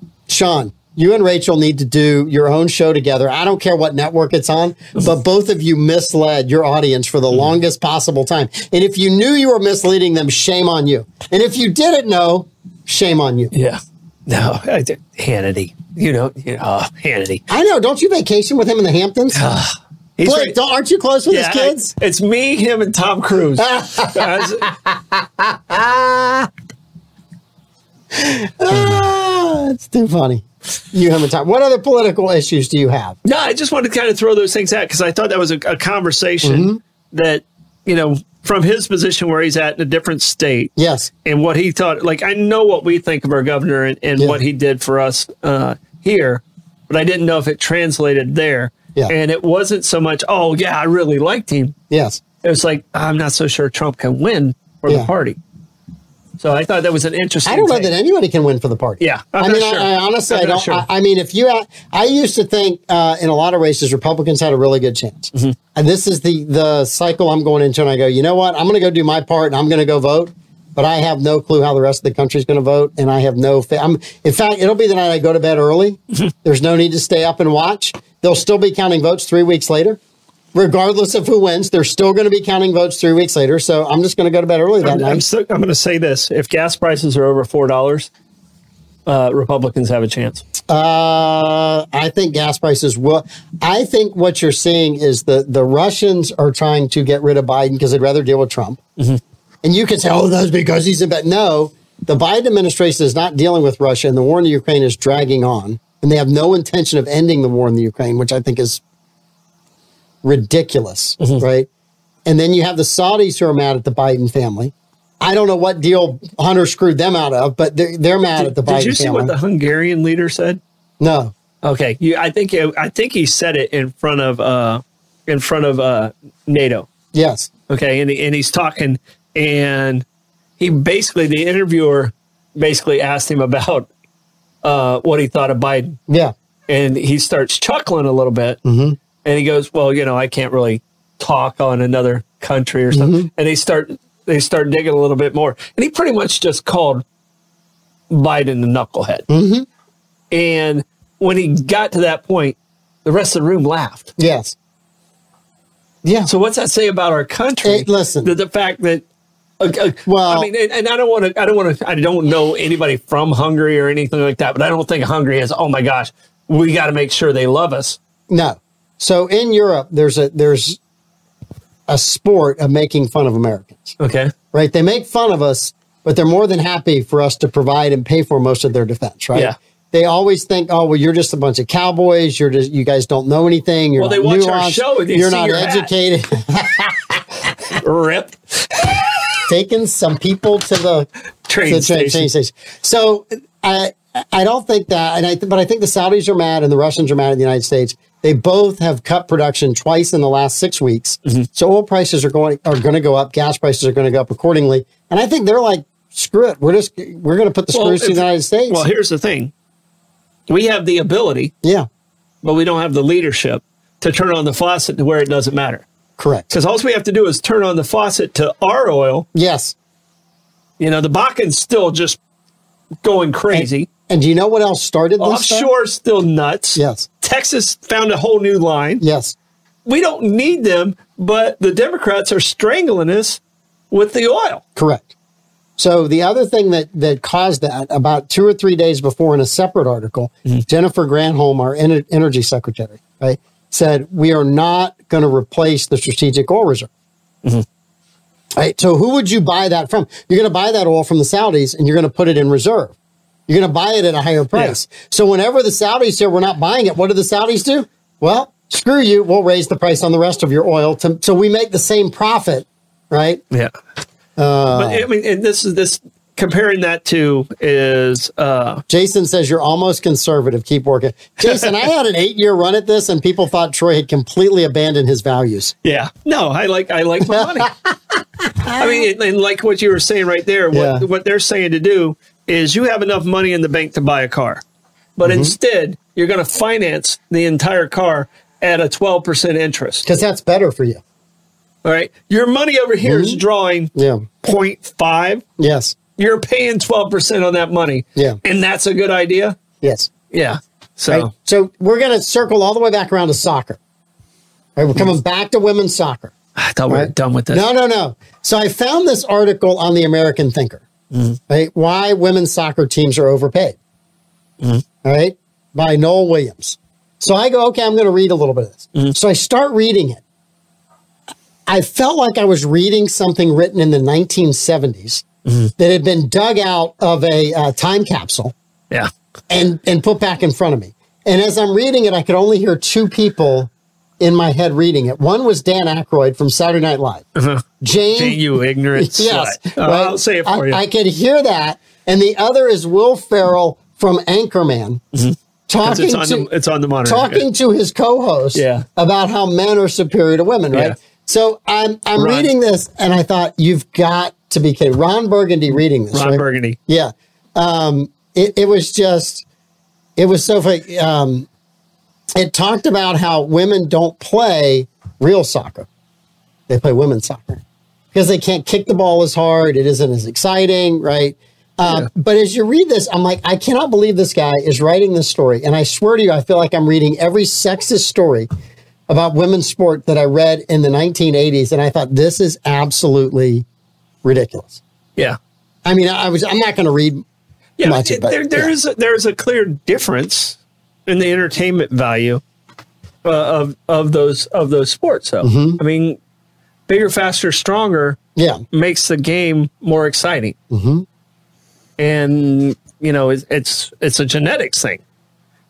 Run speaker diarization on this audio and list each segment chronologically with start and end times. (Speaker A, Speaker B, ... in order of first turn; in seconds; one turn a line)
Speaker A: 0.3-13.5
Speaker B: 13.5-17.4
Speaker A: 17.5-19.6
Speaker B: 19.3-20.6
Speaker A: 20.2-21.9
Speaker B: 21.3-24.7
Speaker A: 23.6-26.5
Speaker A: 28.1-33.2
Speaker B: 33.2-40.7
Speaker A: 36.4-36.8
Speaker A: 40.8-41.1
Speaker B: 41.2-51.7
Speaker A: 51.9-52.2
Speaker B: 52.4-55.4
Speaker B: 56.4-57.9
Speaker A: 57.5-80.0
Speaker B: 59.0-60.9
Speaker A: 80.5-85.2
Speaker B: 84.8-88.1
Speaker B: 89.0-90.4
Speaker A: 90.7-98.8
Speaker A: 99.6-108.8
Speaker A: 110.2-111.7
Speaker A: 112.3-119.3
Speaker B: 118.4-120.6
Speaker A: 121.0-121.3
Speaker B: 121.6-126.9
Speaker A: 127.1-127.5
Speaker B: 127.7-130.1
Speaker B: 130.6-133.9
Speaker B: 134.6-136.0
Speaker A: 136.1-136.3
Speaker B: 136.7-138.6
Speaker A: 138.6-139.0
Speaker B: 139.2-147.0
Speaker A: 142.9-143.3
Speaker B: 148.1-149.3
Speaker A: 149.3-149.7
Speaker B: 150.3-154.1
Speaker A: 154.2-154.6
Speaker A: 156.0-156.3
Speaker B: 156.3-159.1
Speaker A: 157.6-158.3
Speaker B: 159.6-168.0
Speaker A: 160.1-160.5
Speaker A: 168.3-170.8
Speaker A: 171.9-174.0
Speaker B: 174.0-174.3
Speaker A: 174.5-187.2
Speaker B: 184.0-185.9
Speaker B: 187.7-189.2
Speaker A: 189.5-191.1
Speaker B: 191.5-192.3
Speaker A: 191.6-208.8
Speaker B: 207.7-209.5
Speaker B: 210.5-211.5
Speaker B: 212.4-215.9
Speaker A: 216.2-216.5
Speaker B: 216.5-219.3
Speaker A: 219.3-219.7
Speaker B: 220.8-222.2
Speaker B: 223.0-223.9
Speaker A: 223.5-225.7
Speaker B: 225.2-229.0
Speaker A: 226.8-227.1
Speaker A: 229.0-229.4
Speaker B: 229.8-233.4
Speaker B: 233.9-234.6
Speaker A: 234.8-235.1
Speaker A: 235.8-246.9
Speaker A: 248.6-252.9
Speaker A: 253.5-263.4
Speaker A: 264.4-265.1
Speaker B: 264.7-268.8
Speaker A: 268.9-275.7
Speaker B: 271.4-271.7
Speaker B: 275.8-277.7
Speaker A: 278.5-279.1
Speaker B: 278.7-284.6
Speaker A: 280.7-281.1
Speaker B: 285.2-290.1
Speaker A: 285.2-285.5
Speaker A: 290.1-291.0
Speaker B: 291.8-295.4
Speaker A: 293.1-293.4
Speaker A: 293.9-294.3
Speaker A: 295.6-295.9
Speaker B: 296.2-299.6
Speaker A: 299.8-300.1
Speaker B: 300.3-301.3
Speaker A: 301.1-303.8
Speaker A: 304.8-306.3
Speaker B: 306.6-307.6
Speaker A: 306.9-310.9
Speaker B: 311.1-311.4
Speaker A: 311.5-313.8
Speaker A: 315.0-320.2
Speaker A: 321.7-325.2
Speaker B: 325.4-325.7
Speaker A: 325.8-328.5
Speaker A: 329.5-337.3
Speaker B: 337.4-340.8
Speaker A: 337.8-338.4
Speaker A: 338.9-345.0
Speaker B: 345.1-347.4
Speaker A: 345.7-346.5
Speaker A: 347.1-359.4
Speaker B: 348.6-348.9
Speaker B: 352.2-352.5
Speaker B: 356.1-356.8
Speaker A: 360.2-361.5
Speaker A: 362.4-365.9
Speaker A: 366.7-378.5
Speaker A: 379.1-383.7
Speaker A: 384.2-384.8
Speaker A: 385.9-387.2
Speaker B: 387.8-392.4
Speaker A: 387.8-388.7
Speaker B: 393.2-396.2
Speaker A: 395.4-395.8
Speaker B: 396.9-398.2
Speaker A: 398.4-398.6
Speaker B: 398.7-400.6
Speaker A: 400.7-401.1
Speaker B: 402.0-405.0